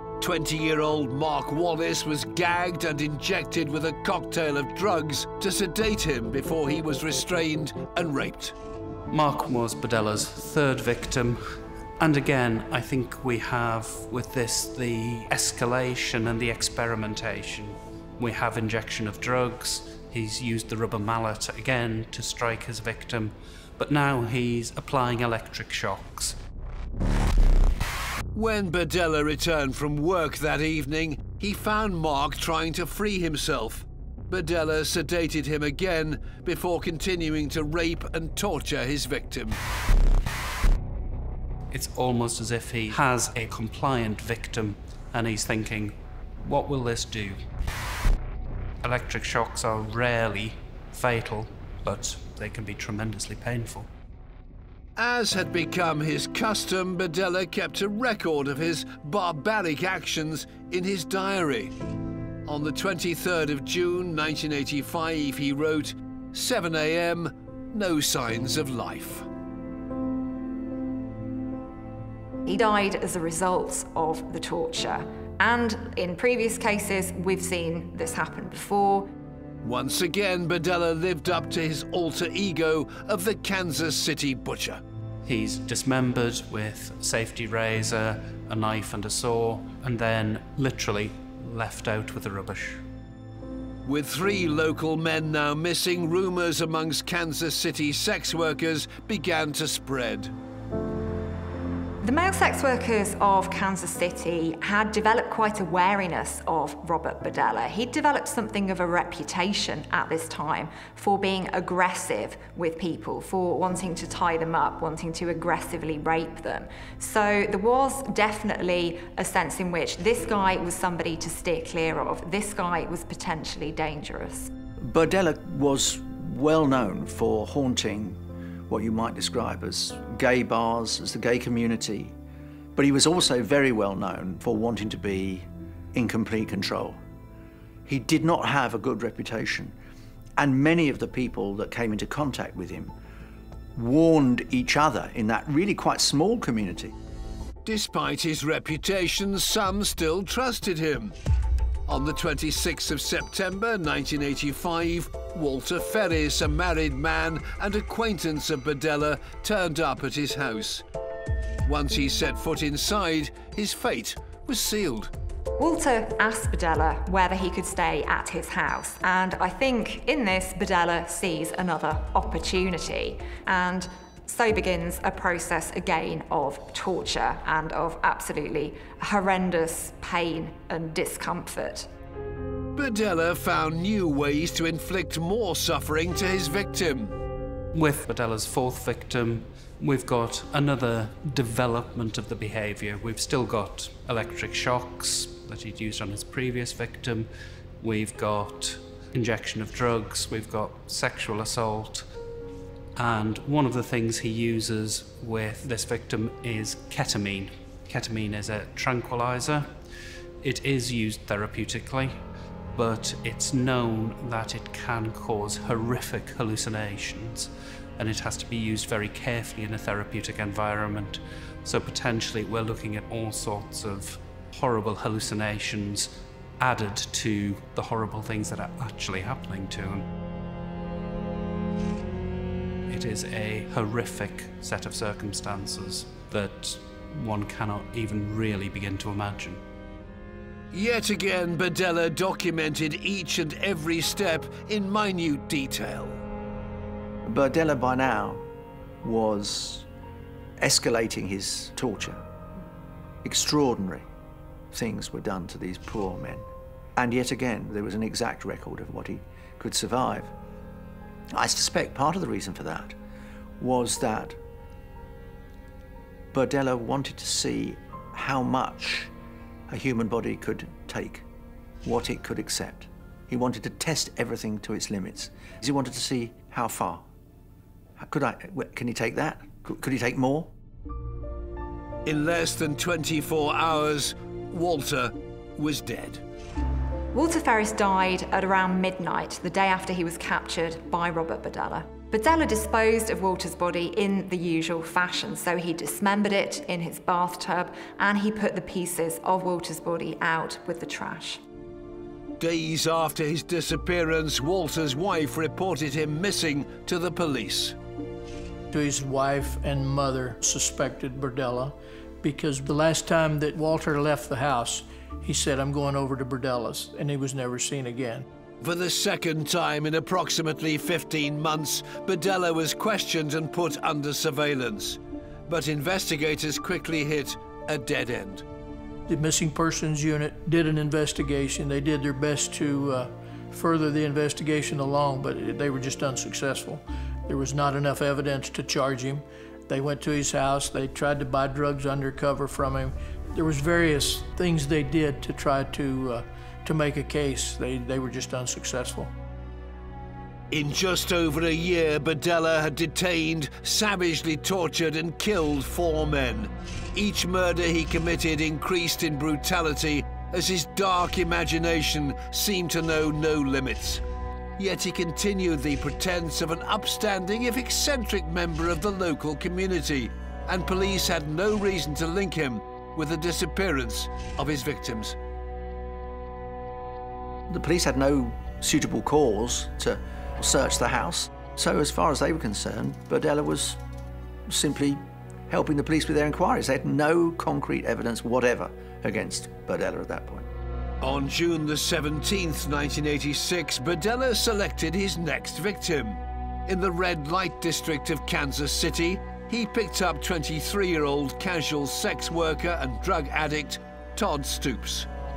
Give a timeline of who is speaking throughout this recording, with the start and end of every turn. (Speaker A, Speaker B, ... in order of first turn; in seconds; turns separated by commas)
Speaker A: 0.2-8.5, Speaker B: 9.1-11.4, Speaker B: 12.0-26.4, Speaker A: 28.3-39.6, Speaker B: 41.7-47.4, Speaker B: 48.8-53.9, Speaker A: 55.0-61.7, Speaker A: 62.5-69.3, Speaker C: 72.5-79.1, Speaker A: 79.6-84.8, Speaker B: 85.2-92.8, Speaker A: 93.8-100.3, Speaker C: 102.0-124.5, Speaker D: 124.8-132.1, Speaker D: 132.7-137.0, Speaker D: 137.8-139.8, Speaker D: 140.4-142.9, Speaker D: 143.7-146.9, Speaker A: 147.6-151.1, Speaker A: 151.9-160.8, Speaker A: 161.6-165.1, Speaker C: 165.6-181.9, Speaker A: 182.7-187.2, Speaker B: 187.7-197.3, Speaker B: 197.8-202.1, Speaker B: 203.0-209.7, Speaker B: 210.4-212.1, Speaker B: 212.7-230.1, Speaker B: 232.9-239.6, Speaker A: 240.7-246.2, Speaker D: 247.2-248.4, Speaker D: 249.0-249.9, Speaker D: 250.6-252.2, Speaker D: 253.2-254.1, Speaker D: 254.7-260.3, Speaker D: 261.3-263.0, Speaker D: 263.6-264.4, Speaker D: 266.3-269.1, Speaker D: 269.7-271.2, Speaker D: 271.8-277.0, Speaker D: 278.0-280.5, Speaker A: 282.1-286.2, Speaker C: 287.1-301.4, Speaker A: 302.4-307.8, Speaker E: 308.7-318.2, Speaker A: 318.6-328.4, Speaker E: 329.1-349.1, Speaker A: 350.5-364.0, Speaker A: 364.6-375.1, Speaker D: 377.5-383.8, Speaker D: 384.5-390.5, Speaker A: 391.0-405.1